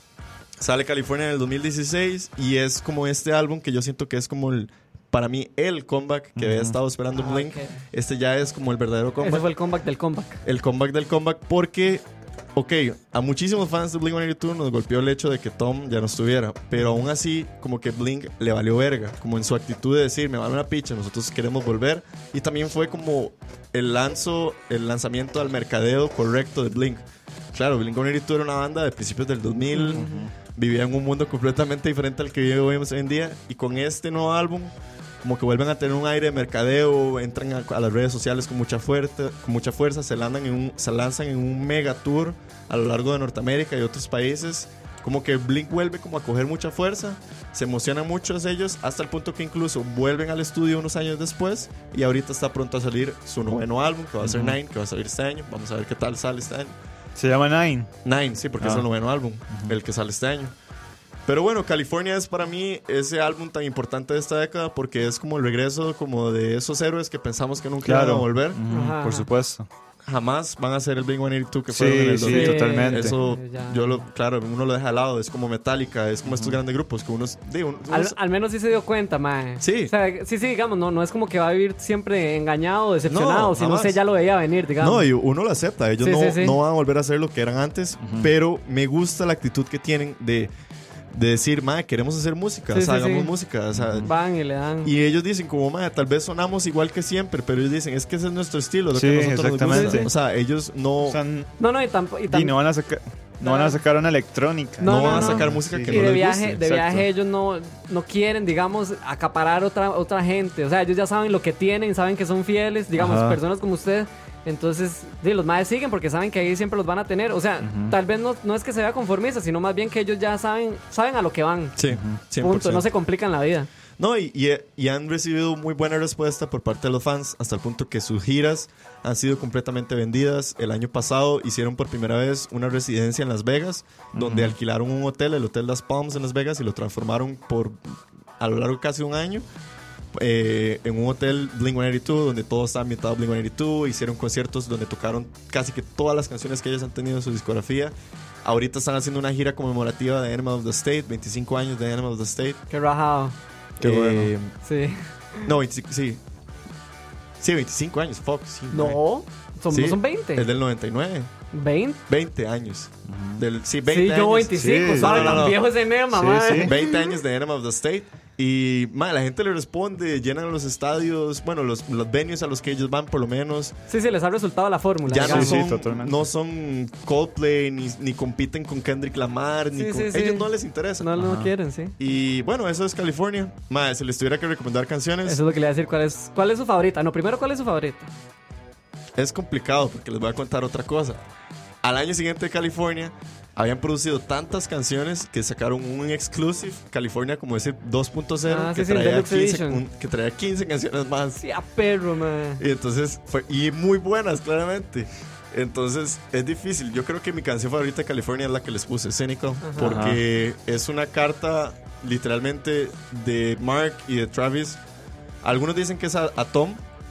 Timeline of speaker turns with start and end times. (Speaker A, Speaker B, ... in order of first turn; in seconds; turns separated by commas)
Speaker A: 0.6-9.5, Speaker B: 6.4-6.8, Speaker C: 7.1-7.8, Speaker C: 9.2-10.4, Speaker A: 10.4-56.8, Speaker C: 29.7-30.3, Speaker B: 29.9-30.3, Speaker B: 54.2-54.6, Speaker B: 57.2-57.9, Speaker A: 58.0-60.5, Speaker A: 61.3-68.6, Speaker B: 67.8-69.7, Speaker C: 68.7-69.3, Speaker A: 70.0-78.2, Speaker B: 71.7-73.2, Speaker C: 72.2-74.0, Speaker B: 76.2-76.6, Speaker C: 77.9-85.1, Speaker A: 79.6-79.9, Speaker A: 83.1-84.0, Speaker A: 84.8-90.5, Speaker C: 86.0-86.6, Speaker B: 88.0-88.3, Speaker A: 91.1-94.1, Speaker C: 92.7-93.3, Speaker B: 93.8-94.1, Speaker C: 94.0-94.9, Speaker A: 94.8-101.2, Speaker B: 99.0-100.1, Speaker C: 99.7-100.1, Speaker B: 101.1-101.5, Speaker C: 101.6-102.6, Speaker B: 102.3-107.1, Speaker C: 103.4-103.8, Speaker C: 104.8-121.8, Speaker A: 104.8-106.6, Speaker B: 113.0-113.4, Speaker B: 117.6-118.0, Speaker A: 121.8-122.9, Speaker B: 121.9-122.2, Speaker C: 122.4-123.7, Speaker A: 124.0-139.4, Speaker B: 134.2-134.6, Speaker A: 140.1-152.6, Speaker C: 152.7-153.3, Speaker B: 153.8-154.3, Speaker A: 153.8-154.5, Speaker C: 154.6-155.5, Speaker A: 155.4-156.2, Speaker A: 157.4-159.0, Speaker C: 158.7-160.5, Speaker A: 159.7-161.3, Speaker C: 161.5-162.0, Speaker A: 162.1-165.7, Speaker B: 163.1-163.4, Speaker C: 163.9-167.1, Speaker B: 164.6-166.7, Speaker A: 166.5-173.8, Speaker C: 173.9-175.6, Speaker A: 175.1-181.1, Speaker B: 175.2-176.2, Speaker C: 179.7-181.9, Speaker B: 181.2-181.5, Speaker A: 182.0-185.4, Speaker C: 185.2-188.1, Speaker A: 189.2-191.2, Speaker A: 191.8-201.4, Speaker C: 198.5-199.8, Speaker C: 201.4-202.6, Speaker A: 202.6-214.8, Speaker C: 209.6-210.0, Speaker B: 209.8-210.2, Speaker A: 215.4-216.8